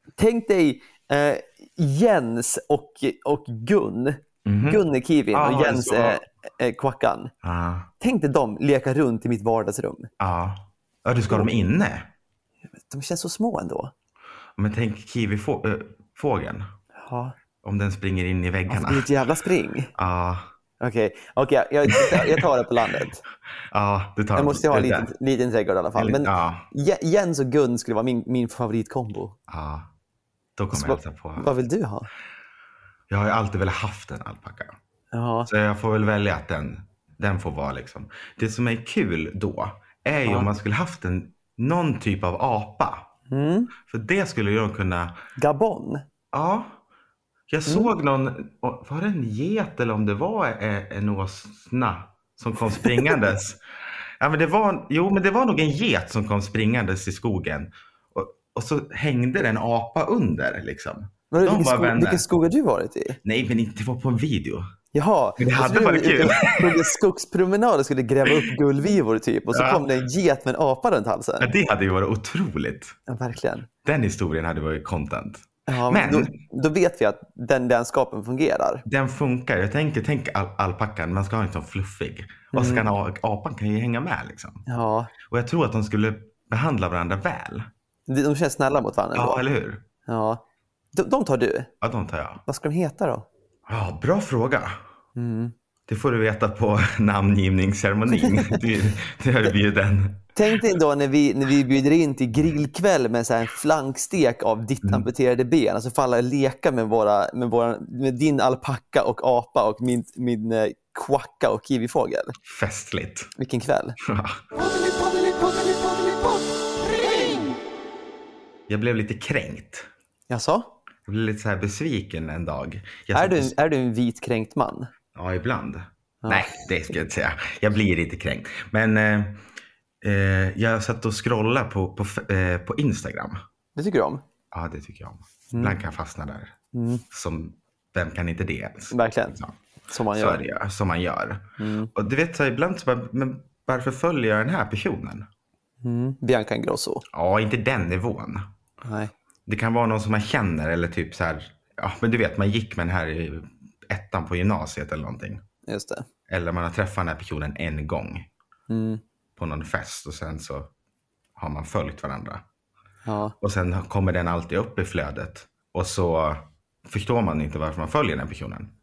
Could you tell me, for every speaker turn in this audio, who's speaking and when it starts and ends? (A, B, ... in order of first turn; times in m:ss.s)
0:00.2-0:07.3 A
0:04.4-0:04.8 B
0:05.3-0:06.2 B
0:07.4-0:07.9 B
0:08.0-0:10.1 A
0:10.2-0:12.1 B
0:12.8-0:13.9 A
0:14.6-0:16.7 B
0:17.0-0:17.3 A
0:17.6-0:19.1 B
0:18.7-0:19.9 A
0:19.9-0:20.5 B
0:20.8-0:23.2 A
0:21.9-0:22.4 B
0:23.7-0:25.1 B
0:24.3-0:29.4 A
0:26.0-0:26.6 B
0:29.5-0:29.9 B
0:30.6-0:31.5 B
0:30.7-0:32.1 A
0:33.1-0:34.7 B
0:35.1-0:35.5 A
0:35.5-0:43.1 B
0:40.2-0:40.5 A
0:43.3-0:43.7 A
0:43.8-0:45.1 B
0:45.4-0:46.0 A
0:46.3-0:46.8 B
0:47.5-0:53.6 B
0:52.8-0:53.1 A
0:54.2-1:02.2 B
1:01.3-1:03.2 A
1:03.2-1:04.6 B
1:04.9-1:11.5 A
1:05.4-1:06.9 B
1:09.5-1:09.8 B
1:11.4-1:12.9 B
1:13.1-1:13.7 A
1:13.8-1:16.3 B
1:15.7-1:18.8 A
1:18.8-1:24.6 B
1:22.5-1:22.8 A
1:24.7-1:25.1 A
1:25.2-1:27.7 B
1:28.1-1:29.4 A
1:29.1-1:29.8 B
1:30.0-1:30.4 A
1:30.9-1:31.7 A
1:31.8-1:32.4 B
1:32.4-1:33.2 A
1:33.7-1:34.8 B
1:35.2-1:35.5 A
1:35.9-1:40.3 B
1:38.1-1:38.6 A
1:40.3-1:52.3 A
1:52.4-1:53.3 B
1:53.4-1:54.0 A
1:54.0-1:54.4 B
1:54.6-1:57.6 A
1:58.7-1:59.9 B
2:00.3-2:00.7 A
2:01.1-2:03.5 B
2:03.1-2:04.9 A
2:05.1-2:09.4 B
2:06.2-2:06.6 A
2:10.0-2:13.4 B
2:13.7-2:14.2 A
2:14.5-2:16.5 B
2:16.7-2:17.0 A
2:17.1-2:19.6 B
2:18.9-2:19.4 A
2:19.9-2:20.4 A
2:20.1-2:25.3 B
2:21.6-2:21.9 A
2:25.8-2:27.0 A
2:27.1-2:28.5 B
2:28.8-2:29.1 A
2:29.5-2:35.4 B
2:35.7-2:36.0 A
2:36.3-2:38.3 B
2:38.7-2:39.0 A
2:39.4-2:40.7 B
2:41.4-2:42.4 B
2:43.0-2:43.3 A
2:43.4-2:48.7 B